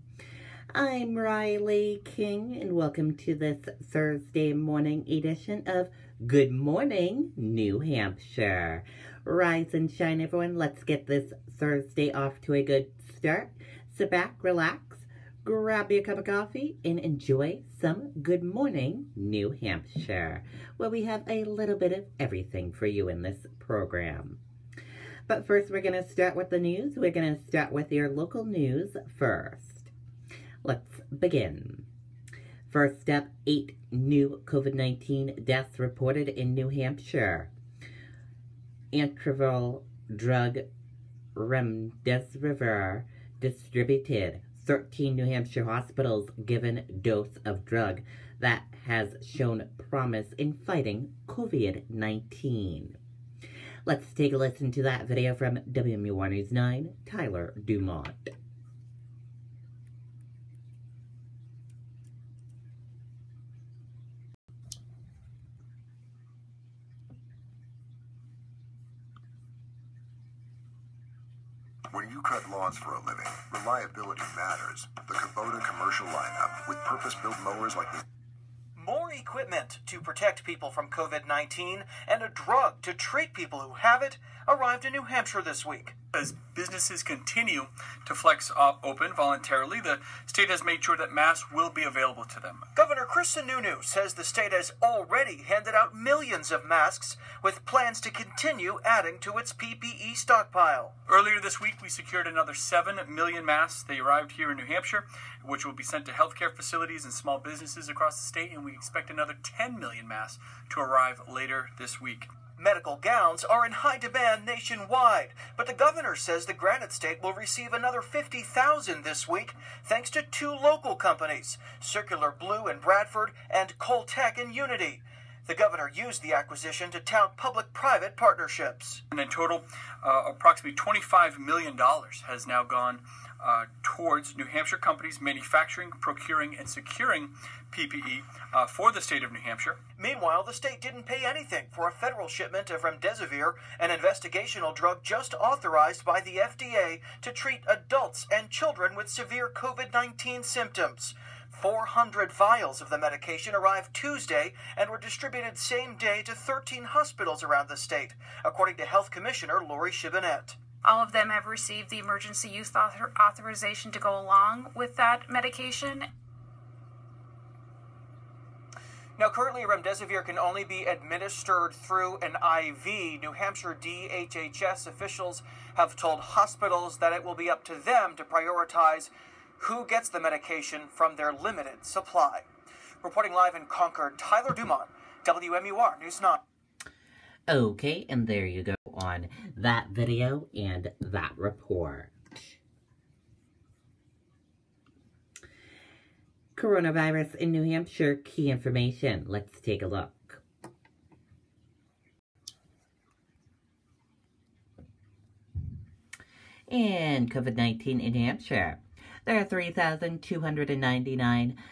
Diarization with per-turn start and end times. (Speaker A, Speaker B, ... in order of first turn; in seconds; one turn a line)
Speaker A: 0.7-24.4
Speaker A: 25.3-29.9
Speaker A: 30.6-31.9
Speaker A: 32.7-37.5
Speaker A: 38.9-40.6
Speaker A: 41.3-53.0
Speaker A: 53.9-58.3
Speaker B: 71.9-78.0
Speaker C: 78.8-85.9
Speaker D: 86.1-92.7
Speaker C: 92.8-100.9
Speaker D: 101.0-112.3
Speaker C: 112.6-129.0
Speaker D: 129.1-139.8
Speaker C: 140.0-160.6
Speaker E: 161.0-166.0
Speaker C: 169.2-182.4
Speaker C: 183.0-186.4
Speaker A: 187.5-192.6
Speaker A: 196.6-200.4
Speaker A: 206.7-211.6